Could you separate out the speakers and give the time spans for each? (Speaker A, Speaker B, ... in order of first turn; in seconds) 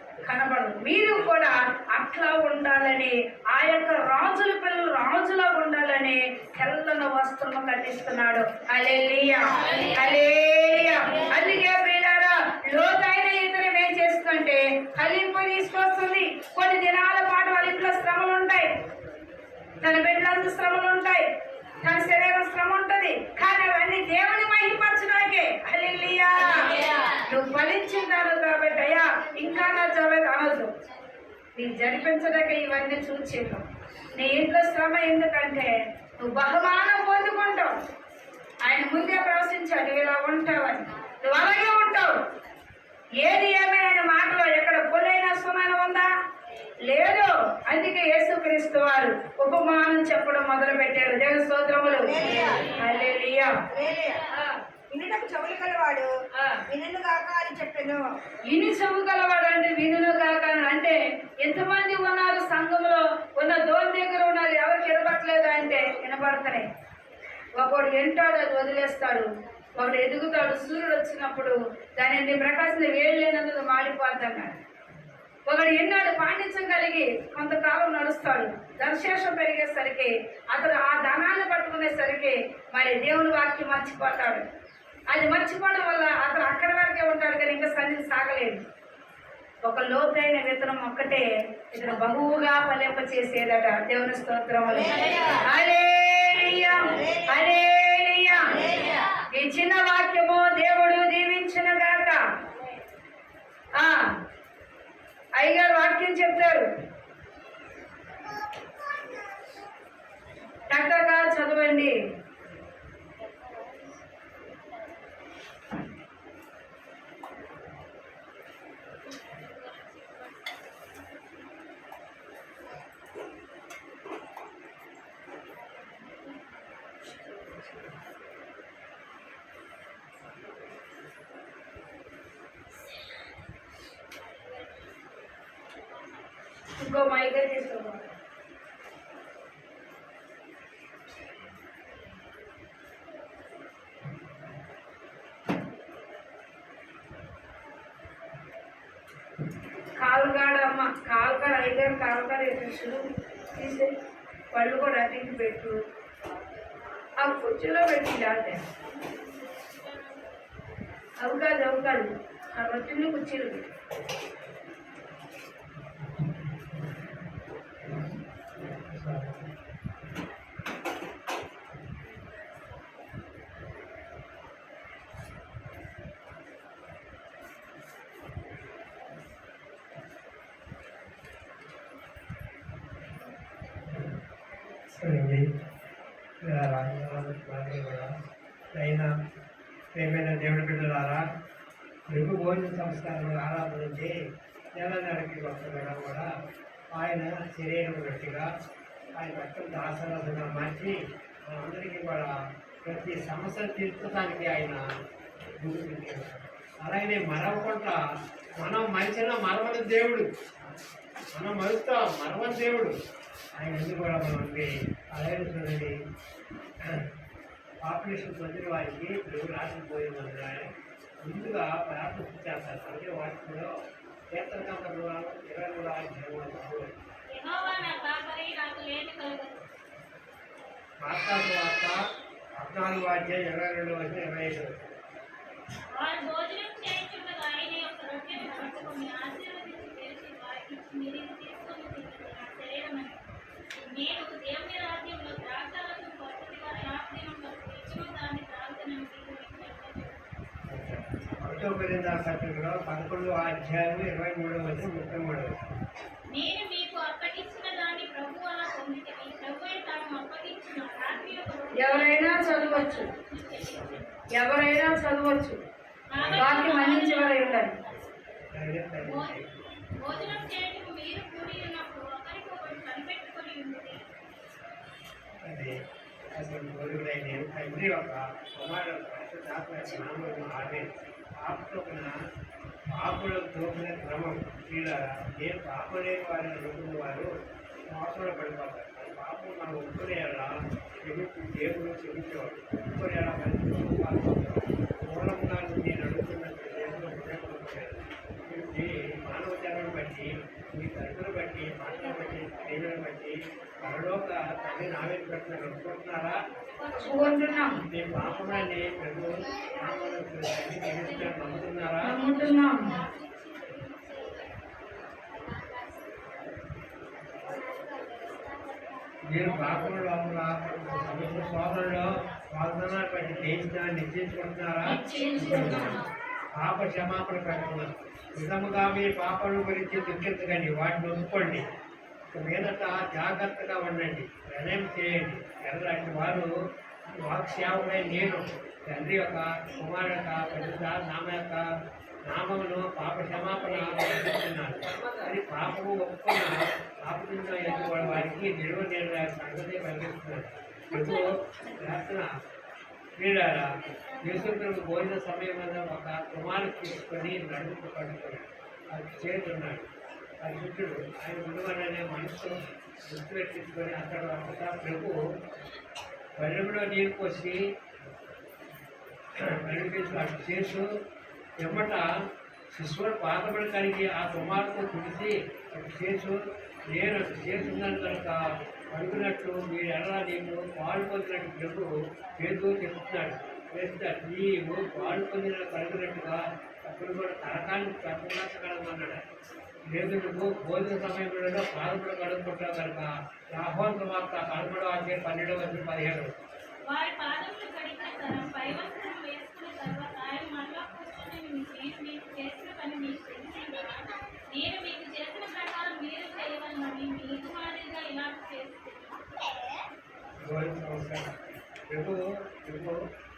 Speaker A: 0.2-18.7, 19.8-21.3, 21.8-30.7, 31.6-37.8, 38.6-42.1, 43.2-46.1, 46.9-53.6, 54.3-54.6, 56.4-56.6, 58.5-66.7, 67.6-74.6, 75.5-84.5, 85.1-88.6, 89.6-98.7, 99.3-102.2, 103.8-104.1, 105.4-106.7, 110.7-112.0, 136.8-138.1, 150.0-153.9, 154.5-155.8, 157.2-158.6, 161.2-163.7, 261.7-263.1, 264.3-265.6, 266.3-267.8, 307.0-307.8, 312.0-313.0
Speaker B: 51.9-52.7, 53.7-54.3, 54.9-56.1, 56.7-58.0, 94.7-95.4, 96.9-97.3, 98.5-99.0
Speaker C: 119.1-120.2, 125.8-126.5, 134.4-134.9, 158.9-160.2, 227.3-229.7, 235.9-250.2, 256.3-264.4, 266.1-268.3, 269.0-269.4, 270.0-274.0, 306.6-307.8, 312.2-314.1, 324.8-326.0, 351.0-351.3, 353.8-354.5, 396.9-409.3
Speaker D: 166.2-167.0, 167.9-169.5, 183.9-184.1, 184.9-185.5, 186.4-188.1, 188.8-189.1, 189.9-191.2, 192.1-194.1, 194.8-196.3, 196.9-198.5, 199.2-202.3, 202.8-204.8, 205.6-208.0, 208.6-210.3, 211.3-213.0, 213.6-215.9, 217.8-220.7, 221.2-223.7, 224.3-227.0, 231.0-232.0, 232.6-234.9, 250.7-255.6, 266.2-266.7, 268.5-269.6, 275.4-275.7, 276.3-282.1, 282.9-287.3, 287.9-306.4, 307.9-312.1, 319.3-326.0, 326.6-331.6, 332.3-336.5, 337.1-341.6, 342.3-352.3, 353.2-359.9, 360.4-362.6, 363.1-365.2, 366.4-367.6, 369.4-370.9, 371.6-372.1, 372.7-389.2, 389.9-396.3, 410.4-413.0